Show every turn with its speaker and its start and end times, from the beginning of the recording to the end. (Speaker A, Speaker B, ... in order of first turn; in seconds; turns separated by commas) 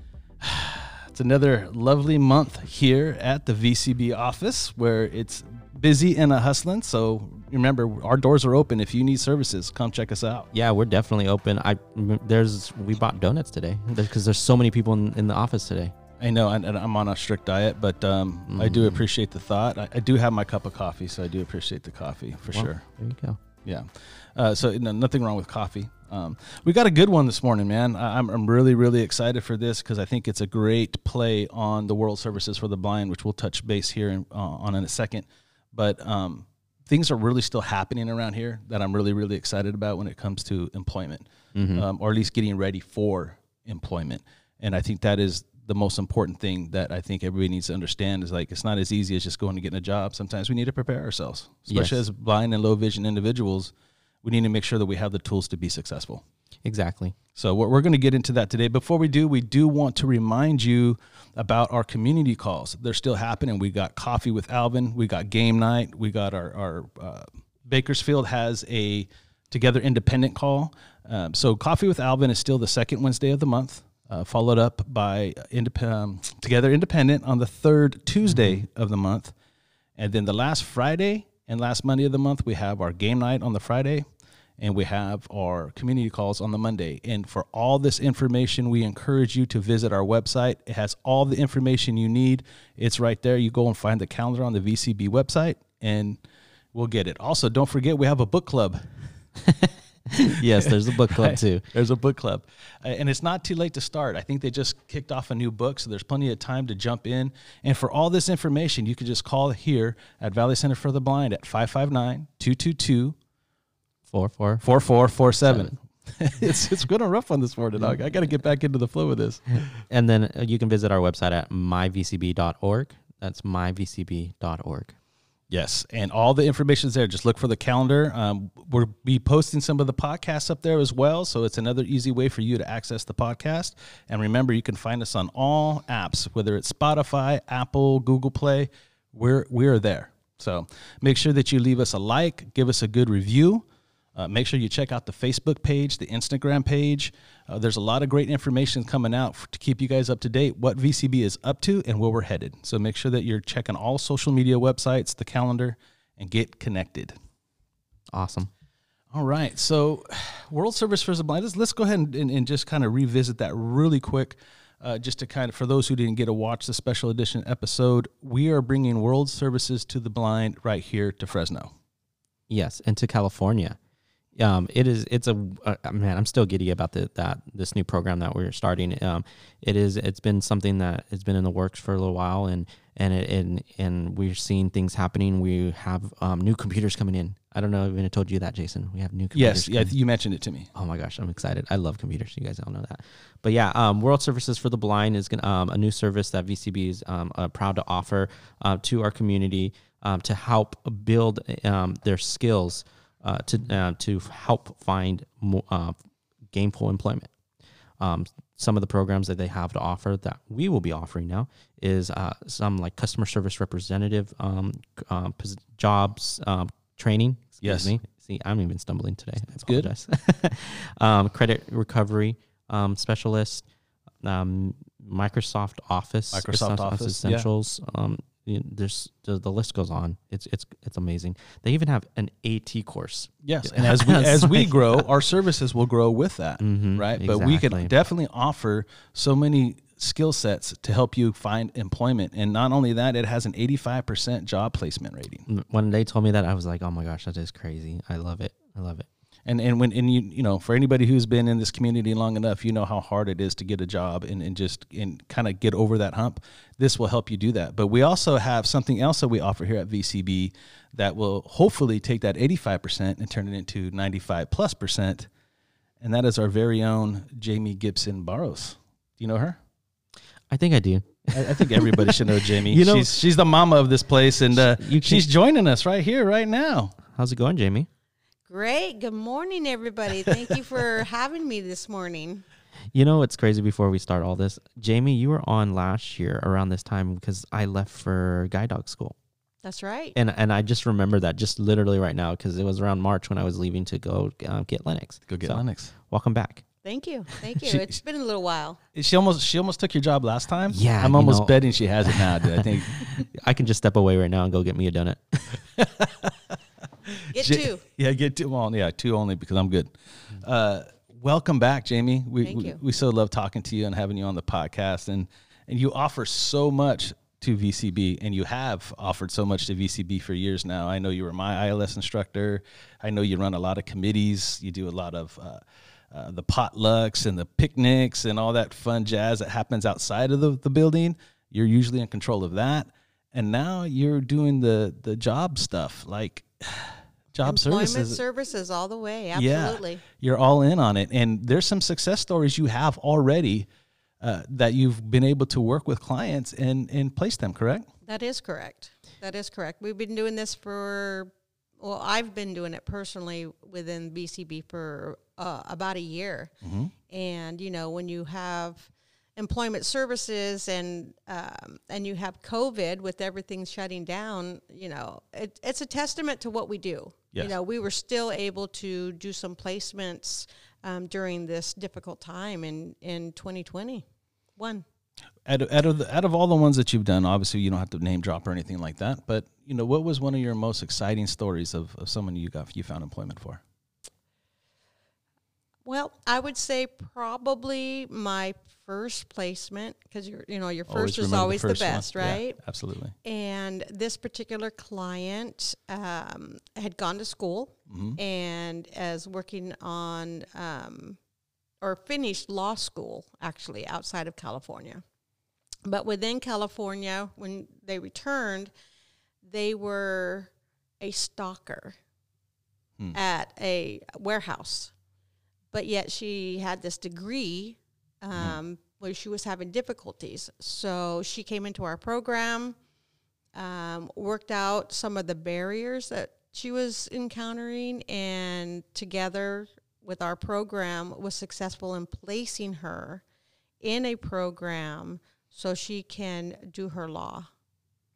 Speaker A: 0.4-10.5, Speaker B: 10.5-15.9, Speaker A: 16.2-22.8, Speaker B: 18.5-19.1, Speaker B: 22.5-23.4, Speaker A: 23.6-56.2, Speaker B: 41.5-41.9, Speaker B: 51.7-52.0, Speaker B: 56.6-57.1, Speaker A: 57.3-79.3, Speaker B: 78.2-78.6, Speaker A: 80.0-84.0, Speaker A: 84.6-96.2, Speaker A: 96.7-99.1, Speaker B: 99.5-101.7, Speaker A: 100.5-113.2, Speaker B: 114.1-114.6, Speaker A: 114.6-119.7, Speaker B: 115.4-115.7, Speaker B: 119.8-124.9, Speaker A: 125.5-157.2, Speaker B: 158.1-158.5, Speaker A: 159.1-171.7, Speaker B: 172.5-173.8, Speaker B: 174.3-189.9, Speaker A: 189.3-190.7, Speaker B: 190.7-205.9, Speaker B: 206.5-207.3, Speaker B: 208.0-223.7, Speaker A: 217.6-217.9, Speaker A: 219.6-219.9, Speaker B: 224.2-235.0, Speaker A: 226.3-227.5, Speaker A: 233.4-245.4, Speaker B: 236.6-237.9, Speaker B: 245.5-249.1, Speaker A: 249.4-265.3, Speaker A: 266.0-269.6, Speaker B: 270.5-273.1, Speaker A: 271.3-277.0, Speaker B: 274.5-275.3, Speaker B: 277.0-277.9, Speaker C: 278.5-282.4, Speaker B: 282.9-289.1, Speaker C: 289.6-290.1, Speaker B: 290.1-296.6, Speaker A: 295.3-295.9, Speaker C: 296.8-298.8, Speaker A: 297.6-297.9, Speaker A: 298.9-303.2, Speaker B: 300.7-305.6, Speaker A: 305.8-306.3, Speaker A: 307.1-338.2, Speaker C: 307.3-307.8, Speaker C: 312.4-312.8, Speaker C: 337.4-340.0, Speaker A: 339.3-343.7, Speaker A: 344.2-347.9, Speaker C: 348.0-356.5, Speaker A: 356.6-356.9, Speaker C: 357.1-374.0, Speaker C: 374.6-374.8, Speaker A: 375.4-383.6, Speaker C: 385.9-392.6, Speaker A: 390.9-393.1, Speaker C: 393.2-401.2, Speaker A: 397.9-398.2, Speaker C: 401.8-405.0, Speaker C: 405.8-408.7, Speaker C: 409.4-412.0, Speaker C: 413.1-414.9, Speaker C: 415.7-422.8, Speaker C: 423.5-433.2, Speaker C: 433.8-437.5